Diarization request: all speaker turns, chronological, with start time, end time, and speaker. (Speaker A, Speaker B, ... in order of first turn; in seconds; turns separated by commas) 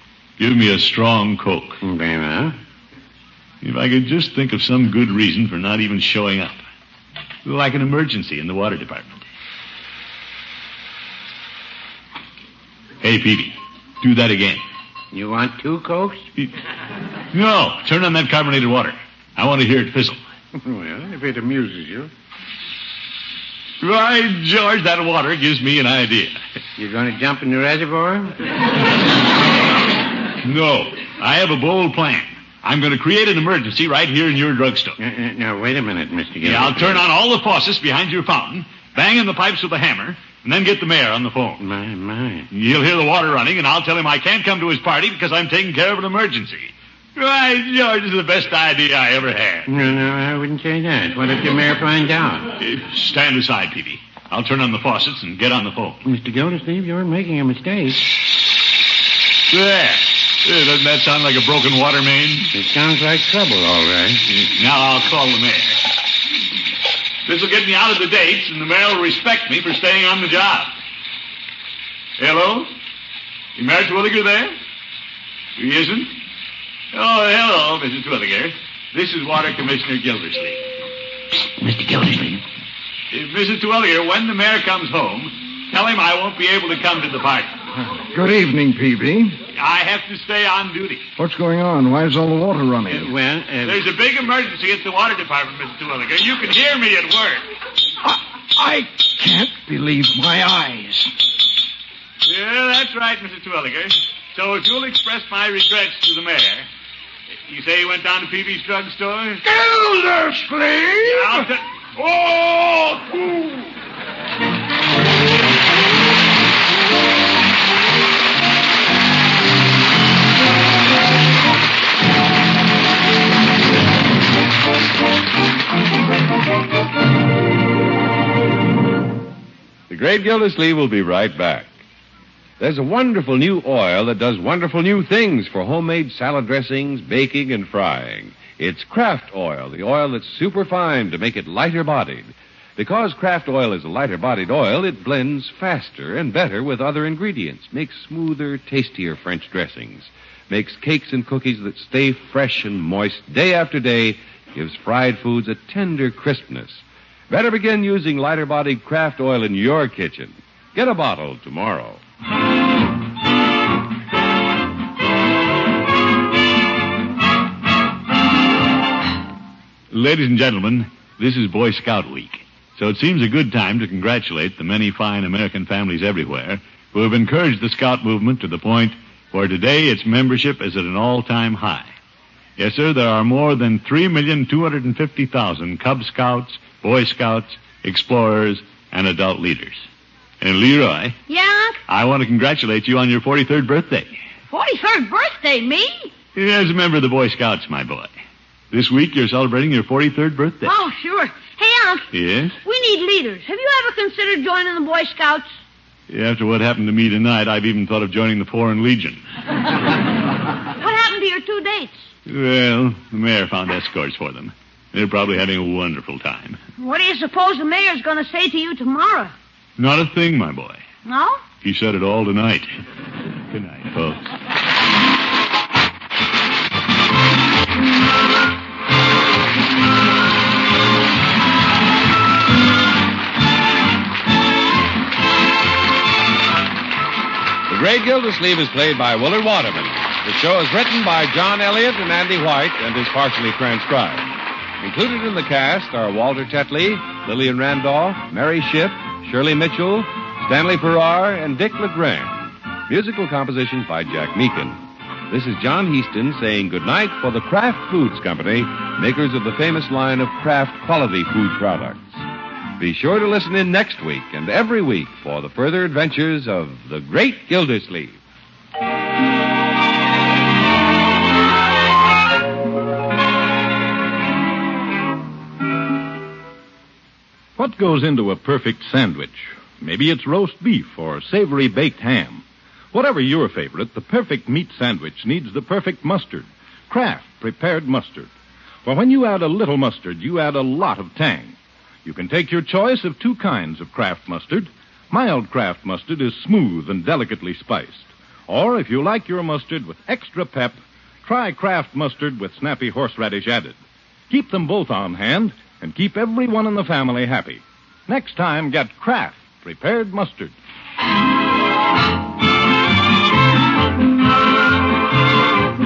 Speaker A: 0.4-1.8, Speaker B: 1.8-2.5, Speaker A: 3.6-6.6, Speaker A: 7.4-9.2, Speaker A: 13.0-14.6, Speaker B: 15.1-16.2, Speaker A: 17.3-20.2, Speaker B: 20.6-22.1, Speaker A: 23.8-26.4, Speaker B: 26.8-28.4, Speaker A: 30.4-35.0, Speaker B: 35.0-37.0, Speaker A: 36.4-41.6, Speaker B: 41.6-42.5, Speaker A: 42.5-49.7, Speaker B: 49.7-52.5, Speaker A: 52.6-56.0, Speaker B: 56.0-58.0, Speaker A: 59.5-62.5, Speaker B: 62.5-64.2, Speaker A: 64.3-65.8, Speaker A: 67.2-70.7, Speaker A: 72.2-72.7, Speaker A: 73.5-74.5, Speaker A: 75.6-76.1, Speaker A: 76.9-80.6, Speaker B: 81.6-82.4, Speaker A: 83.1-87.6, Speaker C: 87.8-89.4, Speaker A: 89.5-91.1, Speaker C: 91.2-93.1, Speaker B: 92.9-93.8, Speaker A: 93.6-97.4, Speaker C: 98.0-101.1, Speaker A: 102.2-106.7, Speaker A: 107.3-109.5, Speaker C: 109.4-111.5, Speaker A: 111.0-111.8, Speaker C: 112.0-113.5, Speaker D: 129.9-131.7, Speaker D: 132.6-162.0, Speaker A: 169.9-181.9, Speaker A: 182.6-189.8, Speaker A: 190.4-191.2, Speaker E: 191.3-191.8, Speaker A: 191.9-194.1, Speaker E: 194.5-196.1, Speaker A: 196.3-198.1, Speaker A: 198.7-200.7, Speaker E: 200.6-202.1, Speaker A: 202.1-202.6, Speaker E: 202.6-205.5, Speaker A: 206.1-209.2, Speaker E: 210.8-212.1, Speaker A: 212.2-216.6, Speaker E: 216.8-219.3, Speaker A: 219.8-220.8, Speaker E: 221.0-221.4, Speaker A: 221.6-222.7, Speaker A: 223.5-224.3, Speaker D: 237.7-262.2, Speaker D: 262.8-268.2, Speaker F: 277.6-288.3, Speaker F: 288.8-291.5, Speaker F: 292.0-303.8, Speaker F: 304.3-310.5